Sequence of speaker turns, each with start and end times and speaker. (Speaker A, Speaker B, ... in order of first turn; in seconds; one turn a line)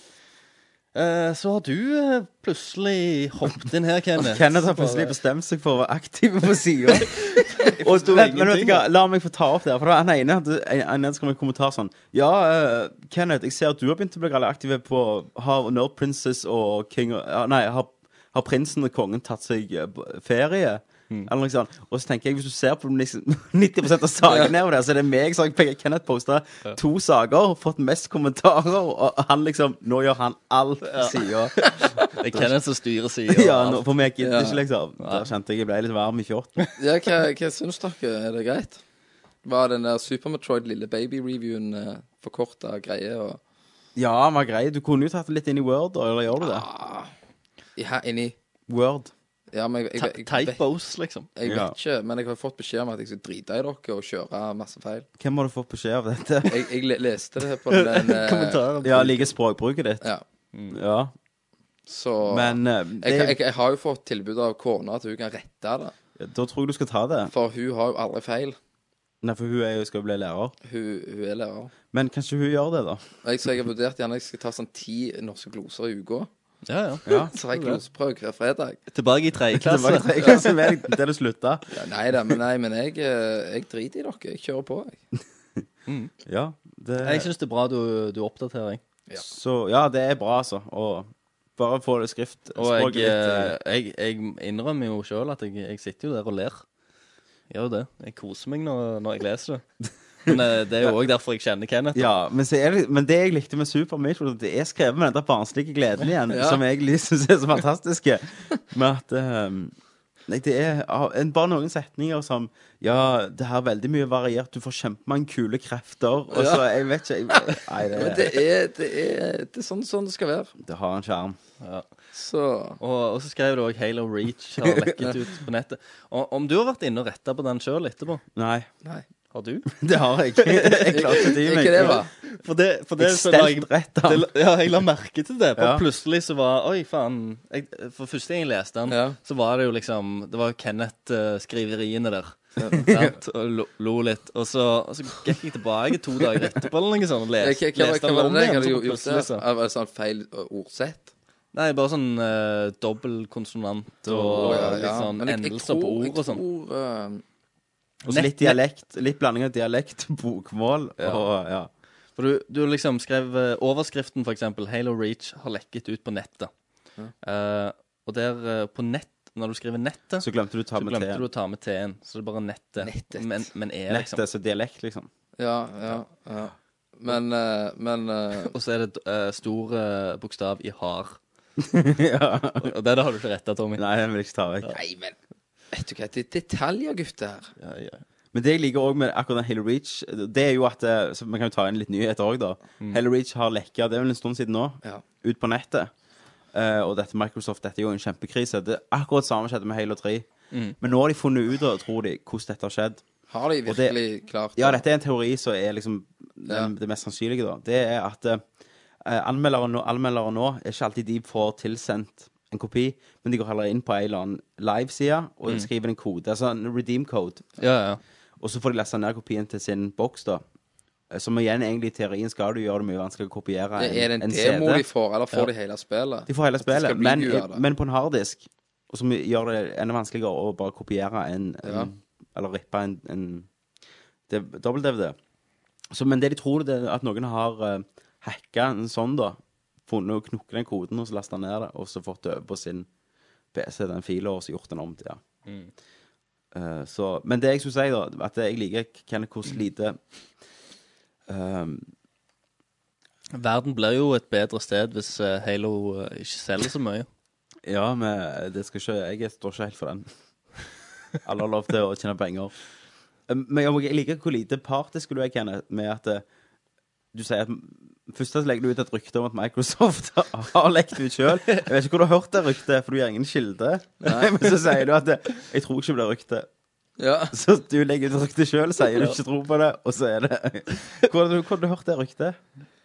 Speaker A: 0.9-5.1
Speaker B: 4.2-32.5
Speaker A: 7.0-8.8
Speaker A: 30.9-31.2
Speaker A: 32.0-33.8
Speaker B: 33.3-36.6
Speaker C: 34.2-34.6
Speaker A: 35.0-35.3
Speaker C: 36.8-38.8
Speaker C: 39.4-43.4
Speaker B: 44.0-46.6
Speaker C: 46.4-47.1
Speaker C: 47.8-48.3
Speaker B: 48.7-49.1
Speaker C: 49.5-50.6
Speaker A: 50.0-51.3
Speaker C: 51.4-55.1
Speaker B: 51.4-51.7
Speaker B: 55.2-56.7
Speaker C: 56.4-58.6
Speaker A: 57.7-59.3
Speaker B: 58.8-60.1
Speaker B: 60.7-61.1
Speaker C: 61.9-65.9
Speaker B: 62.3-63.4
Speaker B: 66.2-67.3
Speaker C: 67.3-68.5
Speaker B: 69.2-70.5
Speaker C: 70.6-71.7
Speaker B: 71.9-73.0
Speaker C: 73.2-76.3
Speaker A: 76.7-77.8
Speaker B: 77.0-77.3
Speaker C: 77.1-78.8
Speaker A: 78.9-80.2
Speaker B: 79.5-81.7
Speaker C: 80.2-80.5
Speaker C: 81.7-85.0
Speaker A: 85.9-86.1
Speaker B: 86.2-87.3
Speaker A: 87.0-88.8
Speaker B: 89.2-93.5
Speaker A: 92.5-96.6
Speaker A: 97.5-99.6
Speaker A: 100.2-102.1
Speaker B: 100.3-100.9
Speaker B: 101.9-109.7
Speaker C: 106.3-106.6
Speaker B: 110.3-118.4
Speaker C: 116.3-116.7
Speaker C: 117.3-120.5
Speaker B: 120.6-121.4
Speaker A: 121.6-121.9
Speaker C: 122.1-122.8
Speaker A: 122.8-128.2
Speaker B: 124.6-125.1
Speaker B: 128.3-128.7
Speaker A: 129.3-129.7
Speaker B: 129.8-132.0
Speaker A: 130.4-131.3
Speaker C: 130.9-132.1
Speaker A: 131.8-149.4
Speaker B: 133.0-134.3
Speaker B: 135.6-135.8
Speaker C: 138.9-139.2
Speaker C: 142.6-142.9
Speaker B: 142.7-143.1
Speaker C: 147.4-151.1
Speaker A: 151.5-156.4
Speaker B: 154.0-154.9
Speaker C: 154.4-157.2
Speaker A: 158.0-158.6
Speaker B: 158.1-161.7
Speaker A: 161.0-161.2
Speaker A: 162.2-166.5
Speaker A: 167.2-174.2
Speaker B: 170.2-171.2
Speaker C: 172.8-173.5
Speaker B: 173.9-175.1
Speaker C: 175.4-178.5
Speaker A: 178.4-181.2
Speaker B: 181.6-182.7
Speaker A: 182.6-183.8
Speaker B: 183.8-184.8
Speaker C: 184.7-185.2
Speaker C: 185.7-187.5
Speaker A: 187.6-188.0
Speaker B: 188.3-195.9
Speaker B: 196.5-200.3
Speaker B: 200.8-203.0
Speaker C: 203.3-204.8
Speaker B: 203.7-204.0
Speaker B: 204.6-208.4
Speaker B: 209.0-217.6
Speaker A: 217.6-218.0
Speaker B: 218.4-220.4
Speaker B: 221.1-224.8
Speaker C: 223.8-227.6
Speaker B: 226.3-233.5
Speaker C: 231.6-231.9
Speaker B: 234.3-235.2
Speaker B: 235.9-242.9
Speaker B: 243.5-245.2
Speaker A: 245.4-245.7
Speaker B: 246.5-250.0
Speaker B: 251.3-251.9
Speaker A: 253.3-257.1
Speaker B: 257.6-260.1
Speaker B: 261.2-262.5
Speaker B: 263.3-266.2
Speaker B: 267.1-276.5
Speaker C: 274.0-274.4
Speaker C: 277.0-277.3
Speaker B: 277.3-282.4